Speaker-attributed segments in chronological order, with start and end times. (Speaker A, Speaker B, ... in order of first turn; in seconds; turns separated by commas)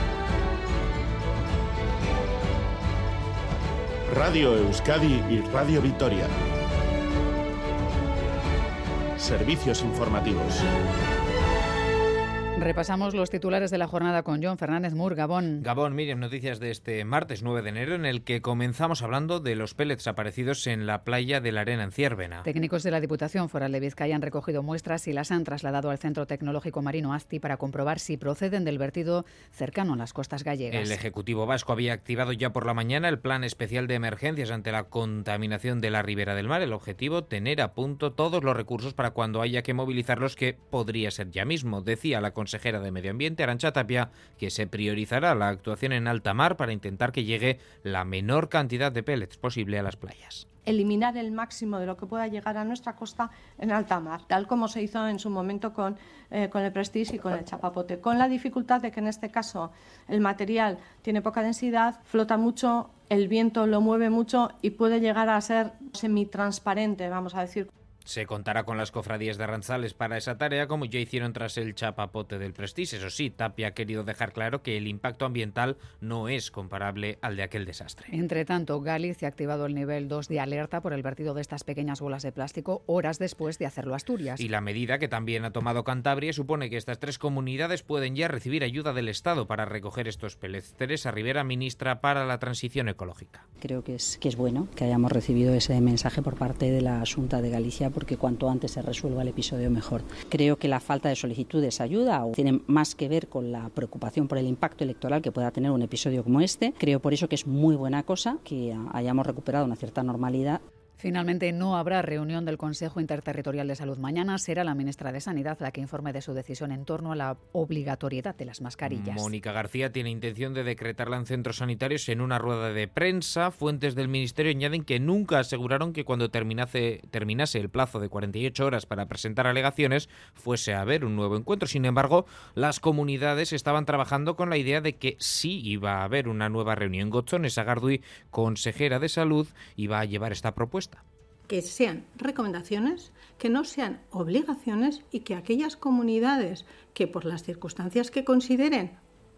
Speaker A: 4.1-6.3, Speaker A: 9.2-10.6, Speaker B: 12.6-15.6, Speaker C: 15.6-22.5, Speaker B: 22.4-30.9, Speaker C: 30.7-50.5, Speaker D: 50.6-67.7, Speaker C: 68.0-78.1, Speaker B: 78.1-84.4, Speaker C: 84.4-93.4, Speaker E: 93.6-110.6, Speaker B: 111.0-119.3, Speaker C: 118.8-141.0, Speaker F: 141.5-149.0